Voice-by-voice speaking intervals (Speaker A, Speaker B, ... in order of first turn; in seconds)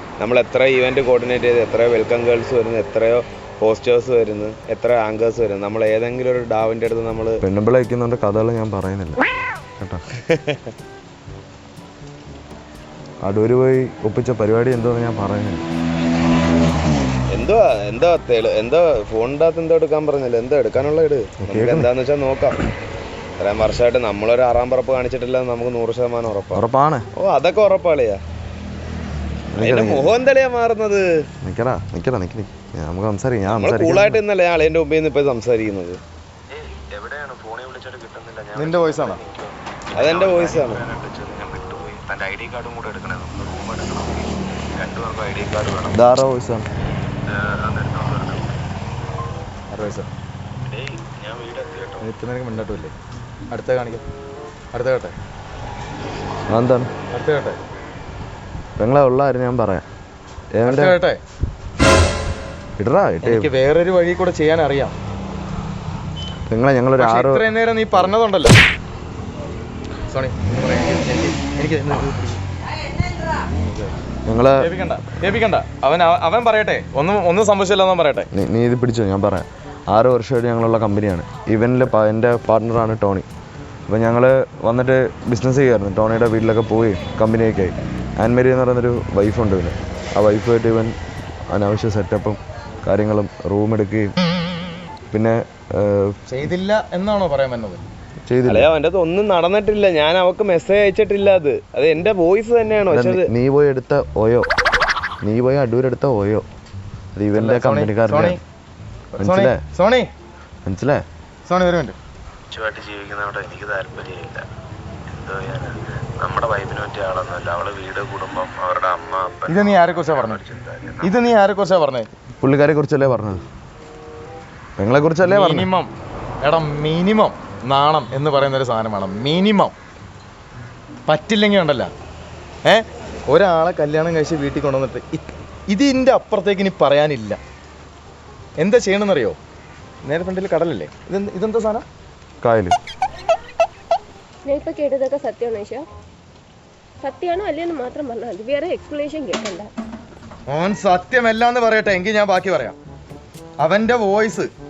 Speaker A: 0.2-7.4, 10.3-10.6, 17.3-22.6, 23.4-26.6, 27.2-28.2, 29.6-31.3, 33.5-36.0, 39.9-41.0, 98.5-103.3
Speaker B: 7.4-9.2, 9.8-10.0, 13.2-15.7, 21.4-21.9, 26.5-27.1, 29.5-30.1, 31.4-34.2, 45.9-46.7, 56.5-56.9, 58.8-59.9, 60.5-61.0, 62.8-63.5, 66.5-67.5, 74.3-74.7, 78.3-83.3, 83.9-91.0, 91.5-94.1, 95.1-96.2, 98.2-98.7, 102.9-104.5, 105.2-106.5, 107.2-108.4, 109.2-109.6, 110.7-111.0, 122.4-123.4, 124.8-125.7, 142.4-142.8
Speaker C: 36.5-44.2, 44.8-45.9, 47.7-48.5, 50.6-52.0, 112.5-114.4, 115.1-121.0
Speaker D: 38.5-39.2, 49.7-50.1, 52.0-52.9, 53.5-54.0, 54.7-55.1, 57.1-57.6, 60.6-61.2, 63.2-65.0, 67.0-68.6, 70.1-72.4, 74.6-78.3, 96.3-97.8, 107.3-108.4, 109.1-110.1, 111.5-112.0, 119.5-120.4, 121.0-122.1, 125.2-125.9, 126.4-129.7, 131.1-131.9, 132.7-137.4, 138.6-139.4, 140.0-141.9, 150.5-152.8, 153.6-154.5
Speaker E: 144.4-145.9, 147.0-149.7